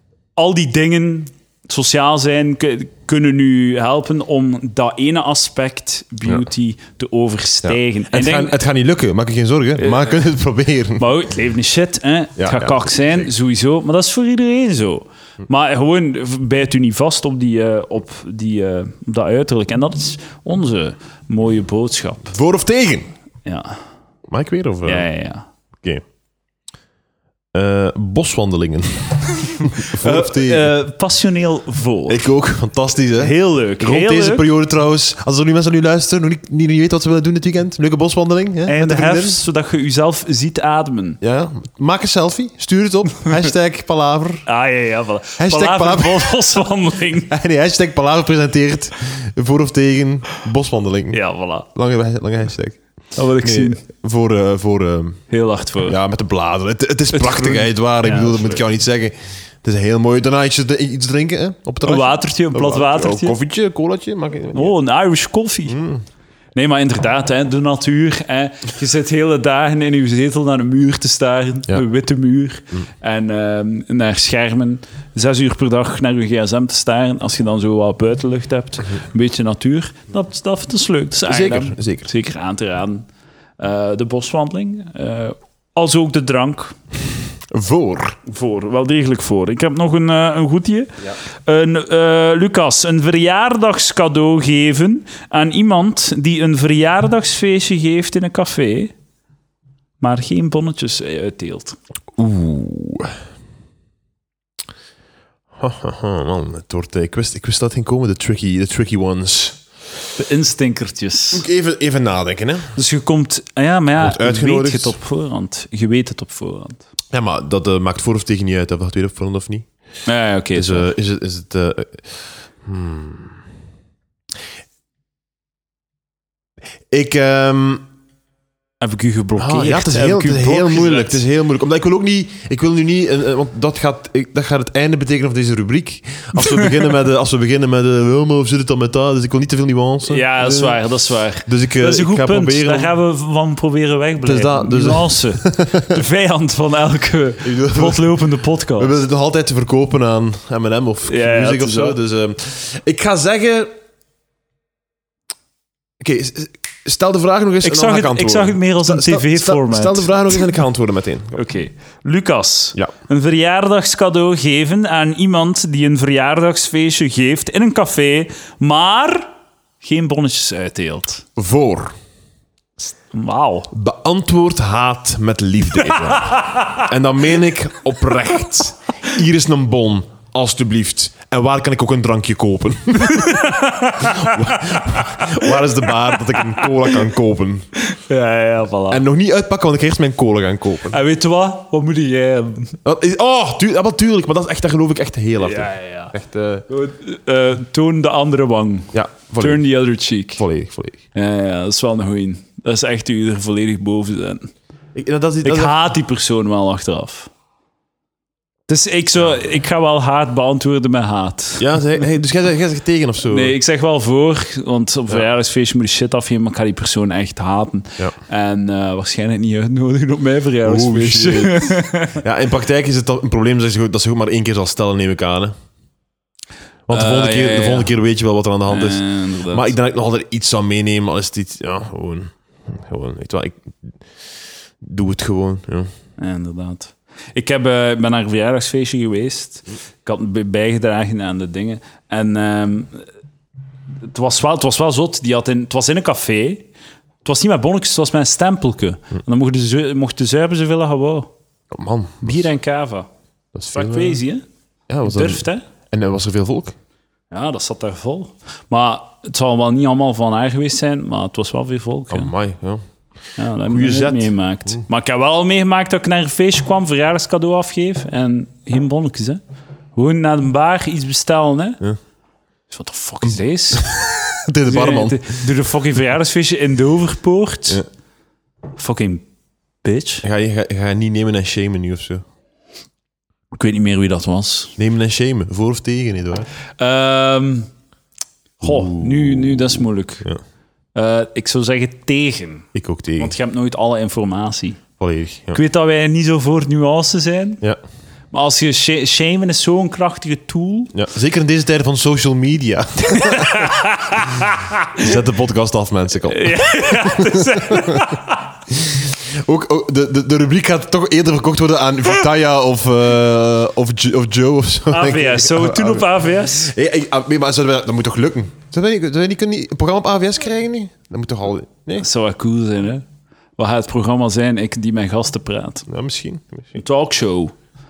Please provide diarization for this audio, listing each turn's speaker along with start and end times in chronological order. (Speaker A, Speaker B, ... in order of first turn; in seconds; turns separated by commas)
Speaker A: 0.4-8.6, Speaker B: 7.6-11.1, Speaker A: 9.8-10.2, Speaker A: 11.0-22.3, Speaker B: 12.4-13.3, Speaker B: 22.3-23.1, Speaker A: 23.4-23.8, Speaker B: 24.3-25.1, Speaker A: 24.8-25.4, Speaker B: 27.5-30.7, Speaker A: 29.8-32.2, Speaker B: 32.1-39.4, Speaker A: 33.1-34.5, Speaker A: 38.6-41.2, Speaker B: 41.2-44.5, Speaker A: 44.5-47.3, Speaker B: 45.4-46.4, Speaker B: 47.3-51.2, Speaker A: 51.1-51.6, Speaker B: 51.7-52.8, Speaker A: 53.1-53.8, Speaker B: 53.4-55.2, Speaker A: 55.3-56.0, Speaker B: 55.8-64.7, Speaker A: 57.1-58.6, Speaker A: 61.8-63.3, Speaker A: 64.5-65.8, Speaker B: 65.7-66.0, Speaker A: 66.5-83.1, Speaker B: 81.3-82.1, Speaker A: 83.6-86.8, Speaker B: 87.5-88.2, Speaker A: 88.2-90.9, Speaker A: 91.4-98.9, Speaker A: 100.0-101.8, Speaker B: 102.2-103.1, Speaker B: 105.6-109.6, Speaker A: 110.2-111.4, Speaker B: 111.3-112.7, Speaker A: 112.7-116.8, Speaker B: 114.0-115.0, Speaker B: 117.1-119.7, Speaker A: 120.0-120.9, Speaker B: 120.5-122.1, Speaker B: 122.6-123.4, Speaker B: 126.9-127.8, Speaker A: 128.8-131.2, Speaker B: 129.4-140.8, Speaker A: 136.4-136.6, Speaker A: 140.1-148.9, Speaker B: 141.4-142.9, Speaker B: 144.2-146.0, Speaker B: 147.4-148.1, Speaker B: 148.8-153.7, Speaker A: 151.0-152.0, Speaker B: 156.0-161.4, Speaker A: 157.6-160.1, Speaker A: 161.3-171.2, Speaker B: 171.3-171.9, Speaker A: 173.1-173.7, Speaker B: 173.7-187.7, Speaker A: 176.0-176.8, Speaker A: 183.0-186.9, Speaker A: 187.8-189.0, Speaker B: 188.9-191.0, Speaker A: 190.9-192.8, Speaker B: 192.8-196.6, Speaker A: 195.4-196.1, Speaker A: 196.7-200.4, Speaker B: 198.9-199.7, Speaker B: 200.4-201.0, Speaker A: 201.1-204.5, Speaker B: 204.9-205.7, Speaker A: 205.4-207.3, Speaker A: 208.7-211.7, Speaker B: 211.6-213.5, Speaker A: 213.2-222.2, Speaker B: 220.6-221.7, Speaker B: 222.2-225.5, Speaker B: 226.9-233.7, Speaker A: 226.9-227.9, Speaker A: 228.7-229.7, Speaker B: 234.8-235.9, Speaker A: 236.2-243.1, Speaker A: 244.0-246.7, Speaker A: 247.2-251.3, Speaker B: 251.7-252.5, Speaker A: 252.2-253.1, Speaker B: 253.5-254.2, Speaker A: 253.7-254.4, Speaker B: 254.9-256.7, Speaker A: 255.0-255.7, Speaker A: 257.3-262.3, Speaker B: 262.1-262.8, Speaker A: 263.4-269.4, Speaker B: 263.7-264.8, Speaker A: 269.9-271.8, Speaker A: 272.7-273.9, Speaker B: 273.2-275.5, Speaker A: 274.6-277.8, Speaker A: 278.8-279.2, Speaker A: 279.8-280.2, Speaker B: 280.2-282.2, Speaker A: 283.5-284.7, Speaker B: 284.8-286.5, Speaker A: 286.8-287.7, Speaker A: 288.6-290.3, Speaker B: 288.6-290.4, Speaker A: 290.9-292.7, Speaker B: 292.7-293.3, Speaker A: 293.2-294.8, Speaker B: 295.0-295.6, Speaker A: 295.5-297.6, Speaker A: 298.3-300.9, Speaker B: 300.9-303.7, Speaker A: 303.1-305.1, Speaker B: 305.0-308.1, Speaker A: 306.3-308.5, Speaker B: 308.7-322.1, Speaker A: 314.9-316.7, Speaker A: 322.0-323.0, Speaker A: 323.6-325.9, Speaker B: 325.9-326.8, Speaker A: 326.8-327.5